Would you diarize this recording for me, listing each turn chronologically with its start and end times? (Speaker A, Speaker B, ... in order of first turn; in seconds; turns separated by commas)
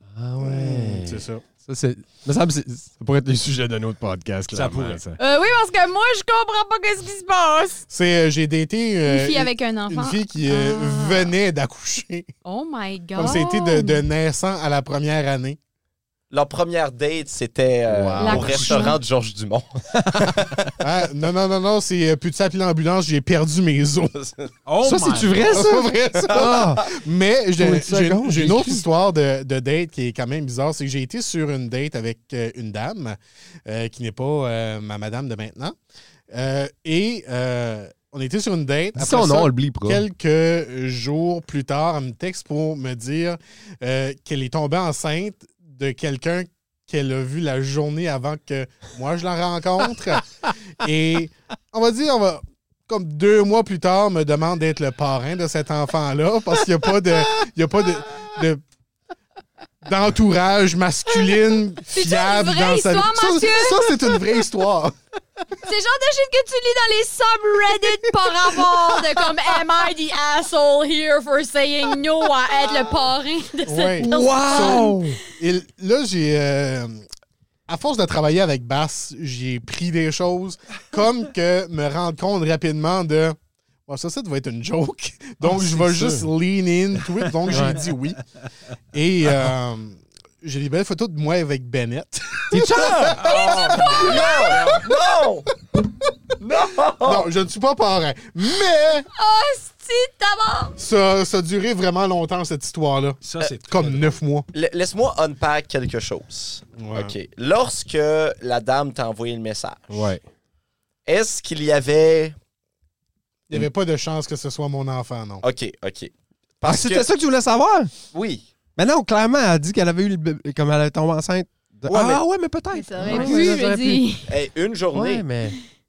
Speaker A: 0.1-5.2, Speaker B: 0.4-1.4, Speaker C: 4.5-5.0, Speaker D: 5.2-7.8, Speaker B: 7.9-12.3, Speaker D: 9.1-11.3, Speaker D: 12.4-14.0, Speaker B: 13.2-15.6, Speaker E: 16.3-20.7, Speaker A: 17.9-18.9, Speaker D: 18.2-19.0, Speaker A: 19.9-20.5, Speaker B: 20.8-24.2, Speaker E: 24.2-24.5, Speaker C: 24.7-25.6, Speaker A: 24.8-26.9, Speaker B: 25.4-35.8, Speaker E: 26.4-26.6, Speaker A: 27.6-28.9, Speaker B: 36.3-58.6, Speaker A: 39.0-40.0, Speaker B: 59.8-65.0, Speaker D: 61.9-63.9, Speaker D: 65.6-75.1, Speaker B: 73.7-77.0, Speaker A: 74.0-75.2, Speaker B: 77.7-88.2, Speaker A: 85.4-86.3, Speaker A: 87.5-87.8, Speaker B: 88.9-94.8, Speaker A: 92.5-93.2, Speaker C: 93.2-94.8, Speaker E: 93.2-95.5, Speaker D: 93.3-94.7, Speaker E: 96.4-97.3, Speaker B: 97.0-99.1, Speaker D: 99.1-100.8, Speaker B: 100.8-104.5, Speaker C: 103.2-104.2, Speaker E: 104.5-110.1, Speaker B: 106.8-107.2, Speaker A: 109.9-110.2, Speaker E: 111.1-112.3, Speaker B: 113.5-115.4, Speaker E: 115.4-117.1, Speaker A: 116.7-117.9, Speaker E: 118.1-118.5, Speaker A: 118.8-124.0, Speaker E: 121.9-122.2, Speaker D: 122.7-124.3, Speaker E: 123.1-123.5, Speaker E: 124.3-125.3, Speaker A: 124.9-125.6